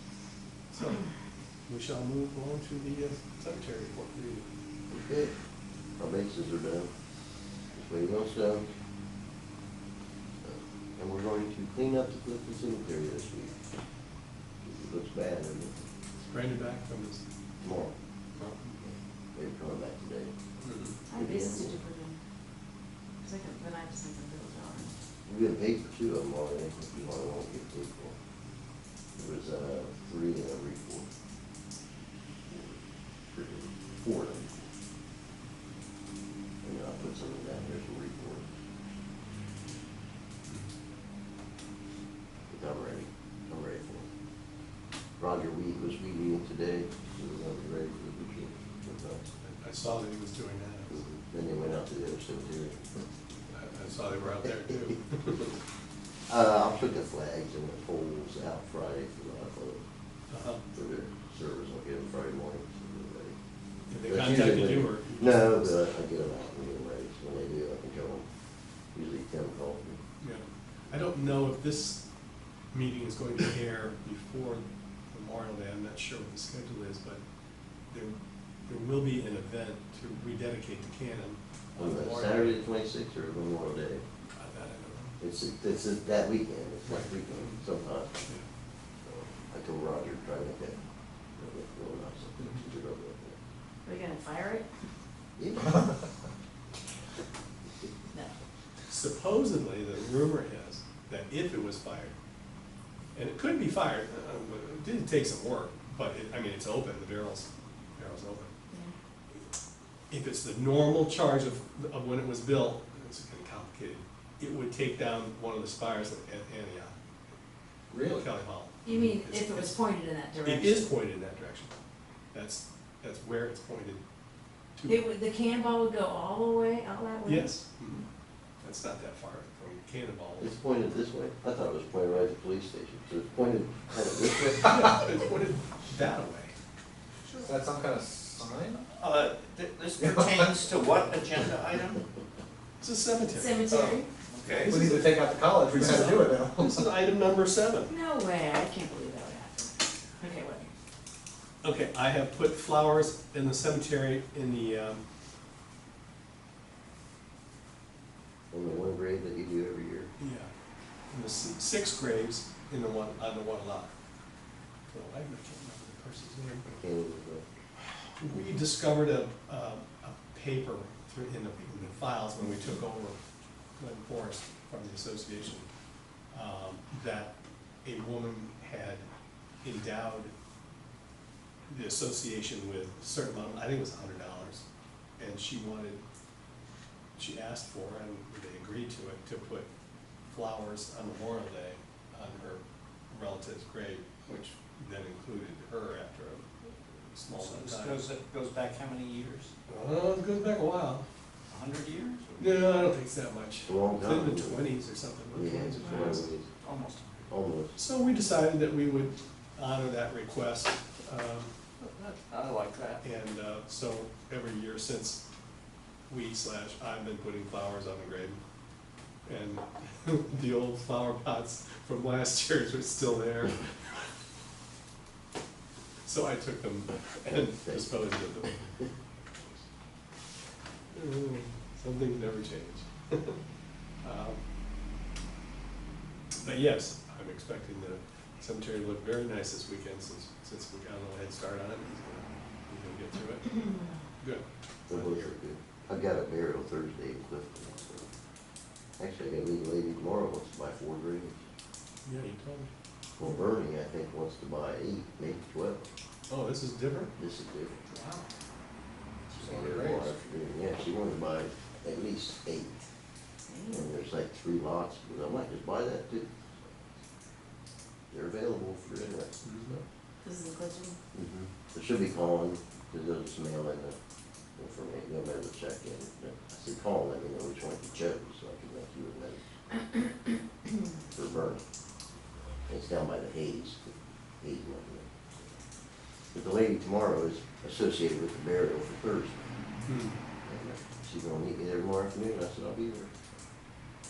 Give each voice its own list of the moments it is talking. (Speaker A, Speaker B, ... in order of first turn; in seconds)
Speaker A: 0.7-1.1, 1.7-4.5, 16.2-17.2, 18.4-18.8, 20.6-21.0, 49.4-51.0, 53.5-55.6, 60.3-60.6, 63.9-65.8, 70.2-72.0, 72.7-77.2, 77.9-82.6, 84.3-85.1, 86.8-87.6, 98.9-102.2, 103.2-108.5, 110.1-117.0, 118.1-119.8, 120.4-121.7, 122.3-124.0, 124.8-125.1, 127.2-128.1, 128.6-130.5, 134.6-136.6, 142.8-143.6, 144.5-147.9, 151.6-155.0, 160.2-160.5, 161.1-163.9, 164.9-166.8, 168.2-173.2, 173.8-175.7, 176.3-179.1, 179.6-180.3, 181.7-184.7, 185.2-186.0, 187.2-189.7, 190.3-198.1, 199.7-201.1, 202.4-206.3, 207.8-211.5, 213.0-215.2, 216.1-218.4, 219.3-223.7, 226.1-228.7, 230.9-233.4, 234.0-234.4, 236.4-245.3, 252.1-252.7, 256.3-257.1, 257.9-258.3, 259.3-259.9, 269.4-269.8, 289.9-290.2
Speaker B: 4.9-5.3, 6.0-6.9, 7.7-8.7, 10.4-13.6, 14.6-15.7, 17.6-17.9, 18.8-20.3, 21.1-21.8, 25.3-28.2, 29.2-31.1, 32.5-34.7, 36.6-38.5, 42.5-44.1, 45.2-49.3, 50.9-53.0, 56.3-59.9, 60.7-63.4, 64.0-68.3, 68.9-70.0, 81.8-84.0, 85.2-88.1, 89.0-90.8, 91.4-93.4, 95.4-96.0, 130.4-134.9, 158.5-160.1, 166.8-167.4, 203.7-204.7, 205.3-206.5, 207.3-207.8, 244.9-248.1, 249.0-251.4, 253.2-255.9, 257.2-257.9, 259.4-262.9, 263.7-266.4, 268.1-269.8, 271.1-274.0, 274.6-279.4, 281.1-281.6, 282.7-285.3, 286.3-289.4, 290.4-293.2
Speaker C: 21.1-22.2, 23.2-24.9, 93.8-94.7, 98.1-98.4, 118.8-120.9, 124.9-127.5, 143.3-144.1, 147.9-150.7, 263.5-263.9, 270.2-271.0
Speaker D: 117.9-118.3, 137.4-138.8, 140.0-140.5, 144.6-147.0, 259.7-260.1
Speaker E: 138.9-142.0, 143.7-144.8, 197.3-199.5, 201.5-202.8, 206.6-207.3, 211.8-213.0